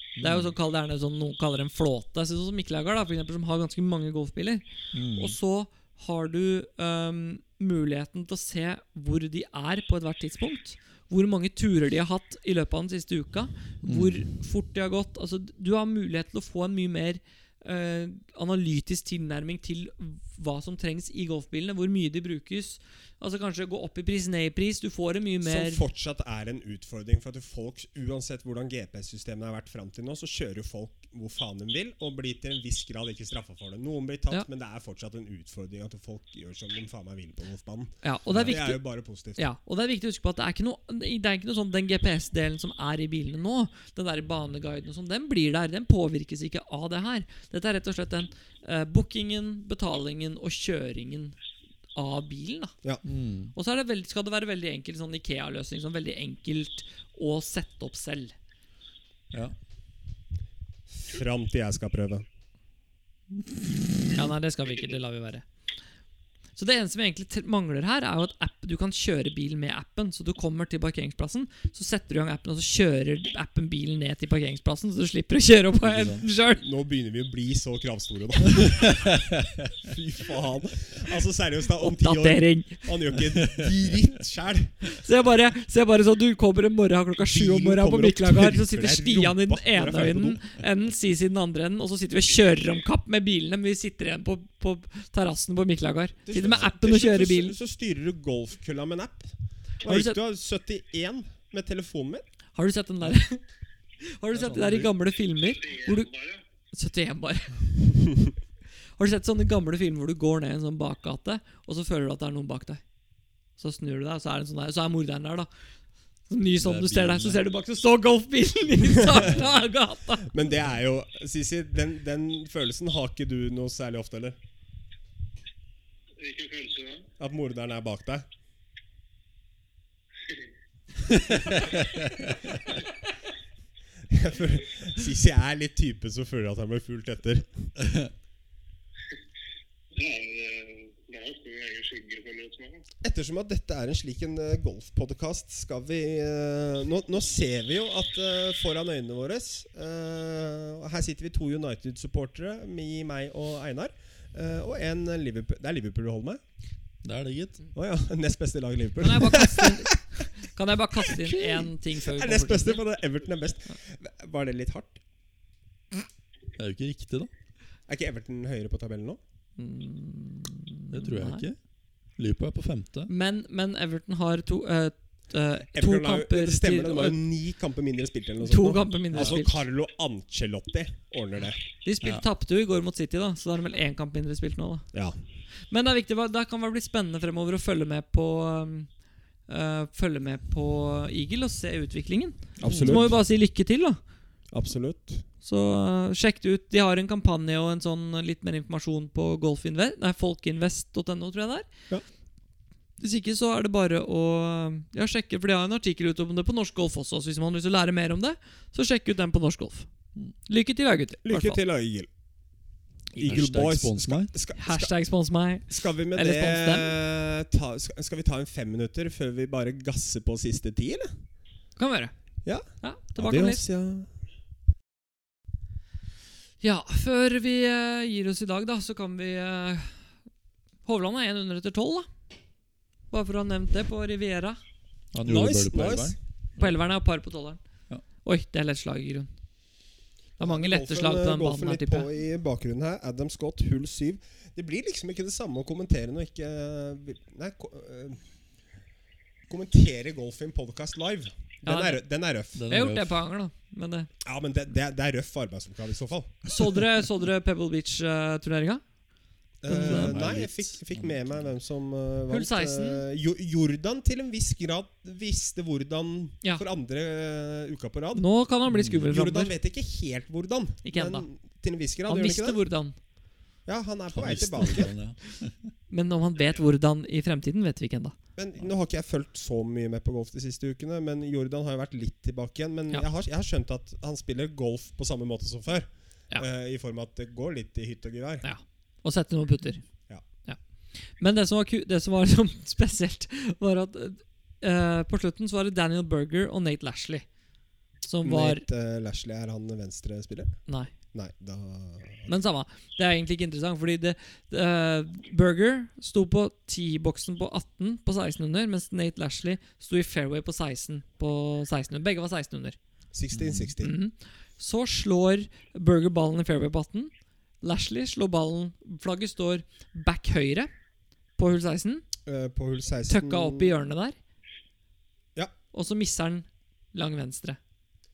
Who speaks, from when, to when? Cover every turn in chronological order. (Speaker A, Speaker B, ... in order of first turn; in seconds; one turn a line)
Speaker A: 0.2-0.5
Speaker B: 0.2-25.8
Speaker A: 4.9-5.3
Speaker A: 13.8-14.2
Speaker C: 25.4-39.4
Speaker B: 38.0-38.8
Speaker B: 39.4-51.4
Speaker B: 51.9-52.7
Speaker A: 53.0-53.5
Speaker B: 53.5-58.3
Speaker C: 60.9-62.2
Speaker B: 64.1-65.4
Speaker B: 66.5-76.6
Speaker A: 75.8-76.3
Speaker C: 76.6-79.2
Speaker A: 79.1-79.4
Speaker C: 79.8-84.9
Speaker B: 81.8-82.8
Speaker B: 85.0-97.5
Speaker C: 87.3-90.4
Speaker C: 96.3-102.2
Speaker B: 99.8-100.2
Speaker B: 102.5-103.4
Speaker B: 104.0-106.1
Speaker A: 104.3-104.9
Speaker D: 105.6-106.4
Speaker B: 106.7-107.6
Speaker B: 109.0-112.8
Speaker B: 113.6-115.5
Speaker B: 116.3-120.3
Speaker A: 116.6-117.4
Speaker C: 119.0-119.4
Speaker A: 119.2-119.5
Speaker C: 120.2-124.4
Speaker D: 126.2-127.1
Speaker C: 127.2-128.2
Speaker A: 131.3-131.8
Speaker C: 134.1-137.7
Speaker D: 139.9-142.8
Speaker C: 143.0-156.4
Speaker A: 157.0-157.6
Speaker C: 157.7-160.0
Speaker B: 159.0-162.8
Speaker C: 161.0-165.0
Speaker A: 166.6-167.3
Speaker C: 167.9-169.2
Speaker B: 169.6-171.4
Speaker A: 170.9-171.6
Speaker A: 172.2-173.1
Speaker B: 173.1-177.2
Speaker C: 175.7-181.6
Speaker B: 178.4-179.5
Speaker B: 181.8-184.9
Speaker B: 185.7-188.9
Speaker B: 189.5-194.0
Speaker C: 192.6-193.2
Speaker A: 192.6-193.2
Speaker C: 194.5-195.2
Speaker B: 195.4-201.7
Speaker B: 203.0-209.9
Speaker B: 210.4-211.6
Speaker C: 211.2-212.1
Speaker C: 213.1-214.9
Speaker A: 213.2-214.3
Speaker B: 214.6-216.9
Speaker C: 215.7-221.1
Speaker B: 221.8-222.1
Speaker B: 222.8-223.6
Speaker C: 223.2-224.1
Speaker B: 226.6-230.0
Speaker B: 230.8-232.1
Speaker B: 233.1-234.6
Speaker A: 235.1-236.7
Speaker C: 235.2-236.2
Speaker B: 236.6-237.6
Speaker B: 238.2-239.3
Speaker C: 240.4-248.2
Speaker B: 240.4-242.1
Speaker C: 249.5-252.6
Speaker B: 251.6-252.0
Speaker A: 252.5-253.2
Speaker B: 252.7-254.1
Speaker C: 254.2-256.4
Speaker B: 256.4-258.8
Speaker C: 259.6-268.3
Speaker B: 259.7-260.2
Speaker A: 259.7-261.4
Speaker B: 262.3-263.0
Speaker B: 268.1-269.5
Speaker A: 268.7-269.1
Speaker C: 269.1-272.6
Speaker B: 270.8-271.2
Speaker B: 272.1-273.0
Speaker C: 273.7-274.9
Speaker A: 274.1-275.7
Speaker B: 275.9-278.1
Speaker C: 278.4-288.4
Speaker B: 288.4-289.8
Speaker B: 291.1-297.2
Speaker B: 298.0-298.6
Speaker C: 298.2-300.6
Speaker B: 300.7-300.9
Speaker C: 301.1-302.3
Speaker B: 302.3-312.8
Speaker C: 313.1-313.9
Speaker A: 313.3-313.7
Speaker B: 313.8-317.1
Speaker B: 317.6-320.7
Speaker B: 321.4-322.0
Speaker C: 322.2-323.7
Speaker B: 323.1-324.2
Speaker B: 325.7-327.6